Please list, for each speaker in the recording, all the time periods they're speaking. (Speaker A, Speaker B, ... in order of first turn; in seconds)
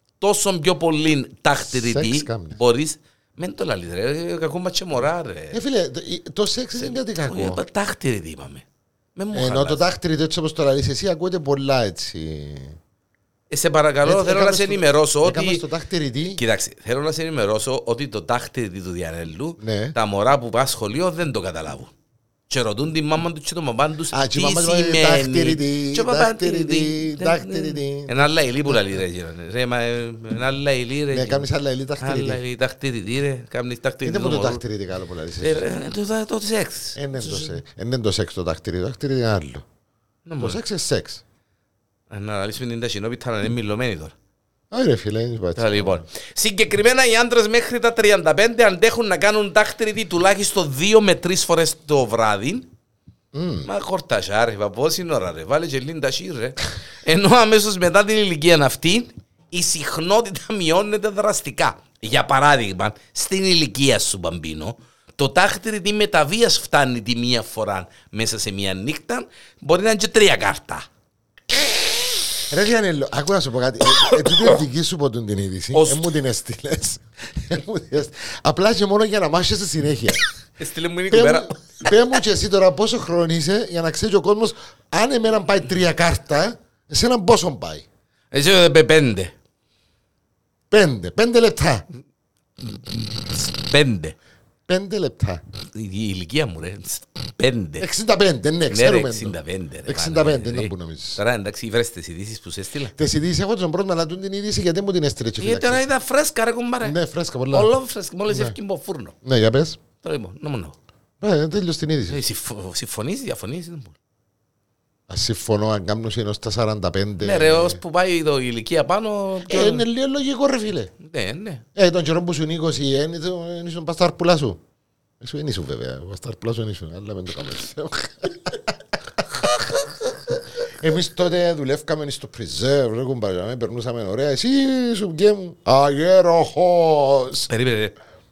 Speaker A: 0.2-5.6, 6.8-8.6, 9.2-9.9, 13.5-15.6, 16.3-21.9, 22.5-31.4, 32.0-34.6, 35.4-37.5, 40.2-40.6, 42.1-44.1, 45.6-52.7, 53.6-70.9, 74.0-74.6, 75.7-76.1, 80.6-81.9, 88.3-89.3, 92.6-94.2, 95.7-97.8, 98.7-102.9, 105.4-107.0, 107.5-109.1, 110.0-110.8, 112.1-113.9, 117.2-119.8, 121.0-121.6, 137.5-137.9
Speaker B: 1.6-2.6, 5.5-7.6, 9.3-12.8, 14.0-16.4, 19.6-19.9, 24.1-28.1, 28.7-29.0, 31.1-32.4, 34.0-35.6, 37.0-39.6, 40.4-41.2, 44.7-46.0, 53.3-53.7, 72.5-80.2, 81.1-87.8, 90.7-91.8, 94.7-95.4, 97.8-99.3, 99.9-101.2, 103.0-105.9, 106.8-107.7, 108.3-108.5, 109.2-109.8, 111.2-112.2, 115.1-117.8, 119.4-120.9, 121.8-124.6, 125.2-137.5